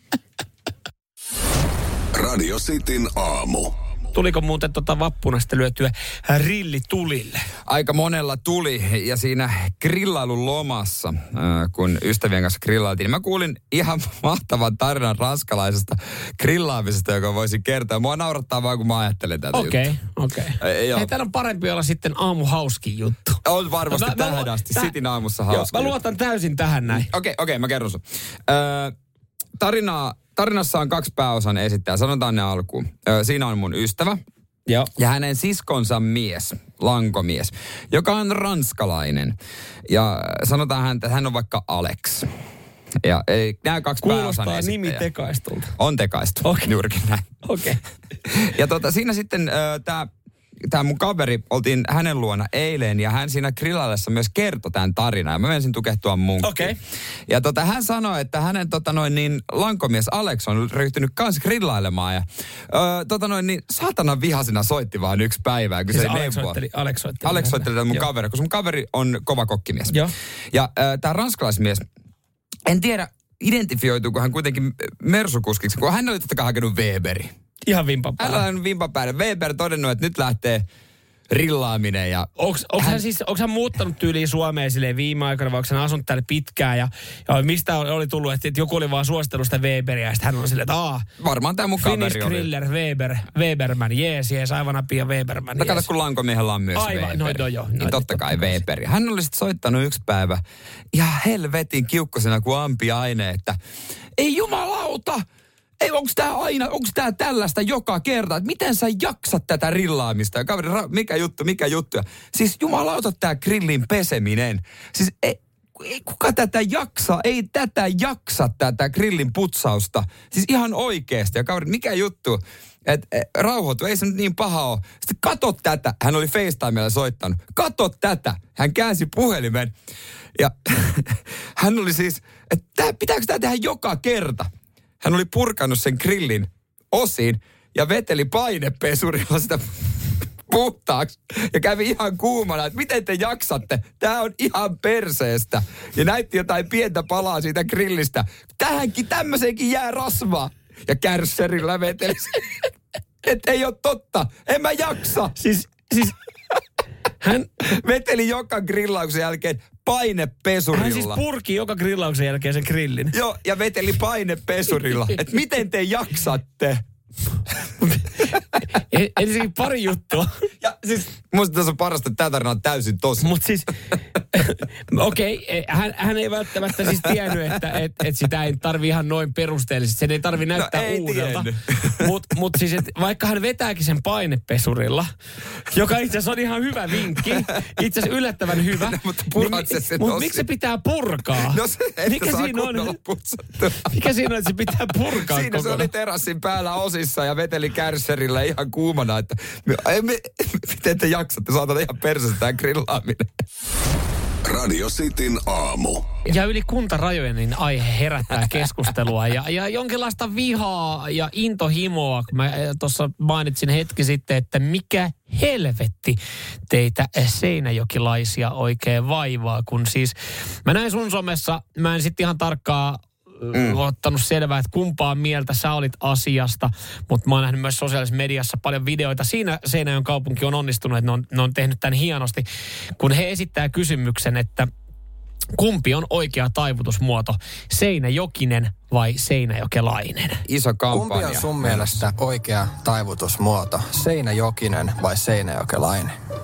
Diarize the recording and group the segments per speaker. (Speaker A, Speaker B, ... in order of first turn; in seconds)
Speaker A: 2.1-3.7, 204.5-206.1
Speaker B: 4.1-7.5, 19.5-24.9, 25.5-27.1, 44.0-45.7, 46.4-46.7, 47.4-47.8, 56.4-56.8, 65.9-68.0, 77.7-78.4, 82.4-91.1, 91.8-95.9, 96.8-98.6, 155.4-156.2, 157.2-157.5, 160.7-163.1, 167.8-170.3, 173.2-173.7, 174.3-185.1, 185.7-193.0, 193.9-195.9, 206.2-232.5, 233.0-234.7, 235.6-240.4
Speaker C: 7.7-19.9, 20.6-21.1, 23.4-25.9, 26.9-28.9, 29.6-34.2, 35.0-39.4, 39.9-42.3, 43.0-45.1, 45.8-47.3, 48.3-50.1, 50.6-66.6, 67.2-70.0, 70.5-71.9, 72.7-77.3, 78.2-80.7, 81.3-83.0, 91.2-92.5, 95.6-103.6, 104.2-105.2, 105.8-129.7, 130.3-134.5, 135.0-152.5, 153.2-155.3, 157.6-161.2, 163.1-166.8, 170.6-173.3, 177.0-177.3, 180.5-182.2, 188.7-190.4, 191.3-193.9, 195.0-203.3, 223.5-223.8, 240.5-242.1
Speaker D: 240.9-246.2